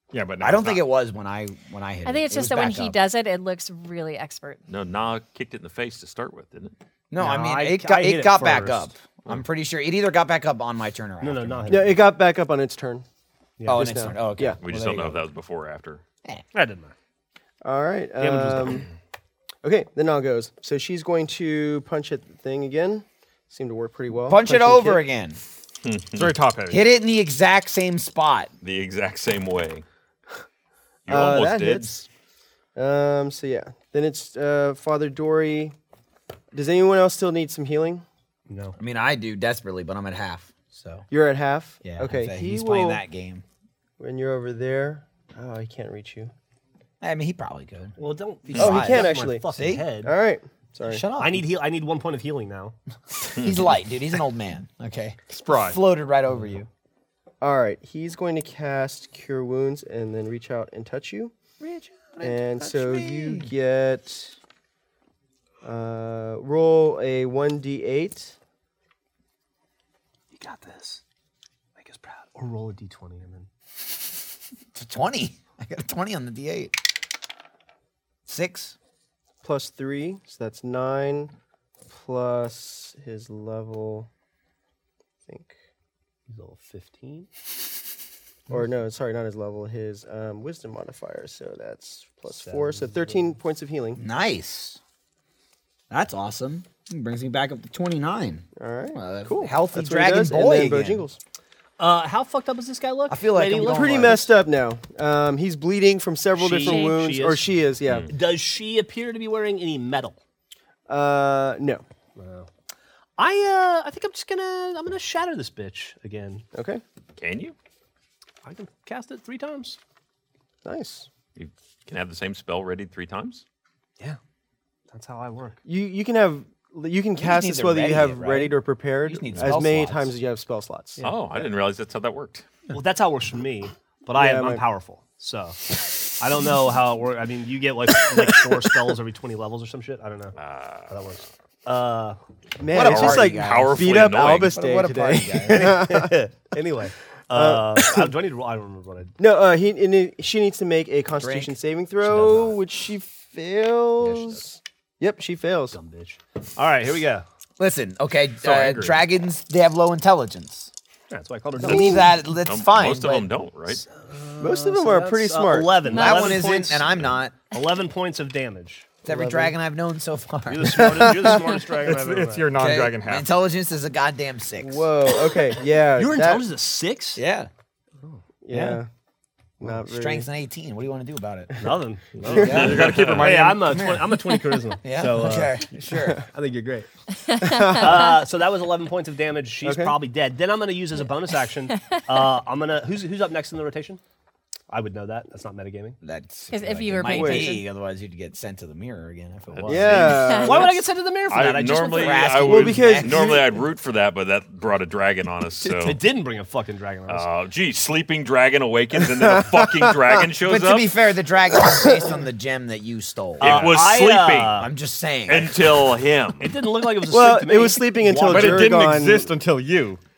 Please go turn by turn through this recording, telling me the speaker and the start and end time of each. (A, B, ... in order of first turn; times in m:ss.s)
0:00.1-0:00.8 A
0:00.4-0:03.0 B
0:02.0-0:04.6 C
0:04.7-0:06.8 D
0:07.1-0:12.0 B
0:07.2-0:08.9 E
0:11.2-0:12.0 E
0:11.7-0:13.0 F
0:13.6-0:14.1 E
0:13.6-0:14.6 F
0:13.7-0:15.2 B
0:14.6-0:16.0 D
0:16.5-0:16.9 E
0:17.6-0:18.9 F
0:18.2-0:18.9 E
0:19.6-0:25.0 F
0:24.2-0:25.4 B
0:25.8-0:26.4 D
0:26.2-0:26.9 A
0:26.7-0:28.5 B
0:28.6-0:29.8 D
0:31.1-0:32.0 D
0:31.1-0:32.1 F
0:32.8-0:35.8 F
0:36.5-0:38.0 F
0:38.5-0:38.8 E
0:38.8-0:41.1 B
0:41.1-0:43.0 F
0:41.8-0:43.4 B
0:44.0-0:46.3 F
0:47.0-0:49.9 B
0:48.0-0:50.1 E
0:48.6-0:49.5 F
0:50.0-0:51.1 F
0:50.8-0:51.5 B
0:51.2-0:52.8 E
0:53.2-0:56.7 B
0:55.3-0:55.8 A
0:57.4-1:01.3 F
1:01.6-1:03.5 B
1:02.2-1:04.4 F
1:05.6-1:08.4 F
1:10.3-1:11.0 E
1:11.8-1:13.5 E
1:14.7-1:16.8 B
1:18.3-1:18.8 B
1:19.4-1:21.3 F
1:21.9-1:24.1 F
1:25.3-1:25.5 F
1:26.3-1:27.3 E
1:28.5-1:34.0 F
1:32.3-1:33.4 E
1:34.0-1:34.8 B
1:35.9-1:41.0 B
1:38.6-1:41.2 F
1:41.8-1:44.3 E
1:43.1-1:44.3 B
1:43.7-1:48.1 F
1:46.4-1:47.5 E
1:46.6-1:47.0 C
1:48.1-1:50.2 E
1:50.9-1:51.8 F
1:52.2-1:52.5 E
1:53.2-1:56.4 E
1:56.5-1:56.8 F
1:57.2-1:57.6 D
1:58.4-1:59.8 E
2:00.6-2:01.1 F
2:01.4-2:03.4 D
2:04.9-2:05.6 E
2:05.6-2:11.1 F
2:07.2-2:10.2 B
2:11.0-2:12.5 D
2:12.7-2:20.4 E
2:14.2-2:14.6 F
2:20.4-2:21.0 D
2:20.9-2:22.2 E
2:22.6-2:26.2 F
2:22.7-2:25.9 B
2:22.7-2:24.6 D
2:25.5-2:29.1 E
2:27.3-2:28.1 F
2:29.2-2:35.8 F
2:31.2-2:31.6 B
2:32.0-2:32.6 E
2:34.0-2:34.4 B
2:35.7-2:37.2 E
2:37.6-2:40.7 B
2:38.4-2:39.0 D
2:41.1-2:42.2 E
2:41.6-2:43.3 B
2:41.6-2:42.0 F
2:42.4-2:43.9 D
2:43.7-2:49.0 E
2:44.4-2:45.8 F
2:45.9-2:47.4 B
2:45.9-2:46.4 C
2:49.0-2:51.4 B
2:49.0-2:49.6 F
2:50.5-2:52.6 E
2:50.8-2:51.4 F
2:51.7-2:53.3 A
2:52.6-2:54.9 B
2:54.6-2:56.4 F
2:56.0-2:57.2 E
2:57.2-2:57.5 B
2:58.4-2:58.9 F
2:58.5-2:58.8 B
2:59.6-3:00.3 F
2:59.6-3:01.6 B
3:01.6-3:05.6 E
3:02.3-3:03.8 A
3:02.4-3:06.2 B
3:02.4-3:03.4 D
3:06.3-3:06.9 E
3:07.3-3:07.8 C
3:07.4-3:08.1 F
3:07.8-3:14.0 E
3:09.6-3:10.0 F
3:11.7-3:12.0 C
3:14.7-3:16.0 E
3:16.0-3:20.5 B
3:16.5-3:17.6 C
3:17.0-3:17.6 F
3:19.5-3:20.2 D
3:19.6-3:22.5 E
3:19.7-3:20.8 F
3:21.3-3:26.0 D
3:21.7-3:23.4 B
3:22.5-3:23.6 F
3:25.6-3:27.3 E
3:27.1-3:30.9 D
3:29.0-3:30.2 F
3:30.4-3:33.9 B
3:31.5-3:32.2 F
3:33.4-3:34.6 D
3:33.4-3:34.7 E
3:34.6-3:35.6 B
3:35.3-3:36.6 D
3:36.4-3:38.8 E
3:37.1-3:39.3 F
3:38.2-3:40.0 A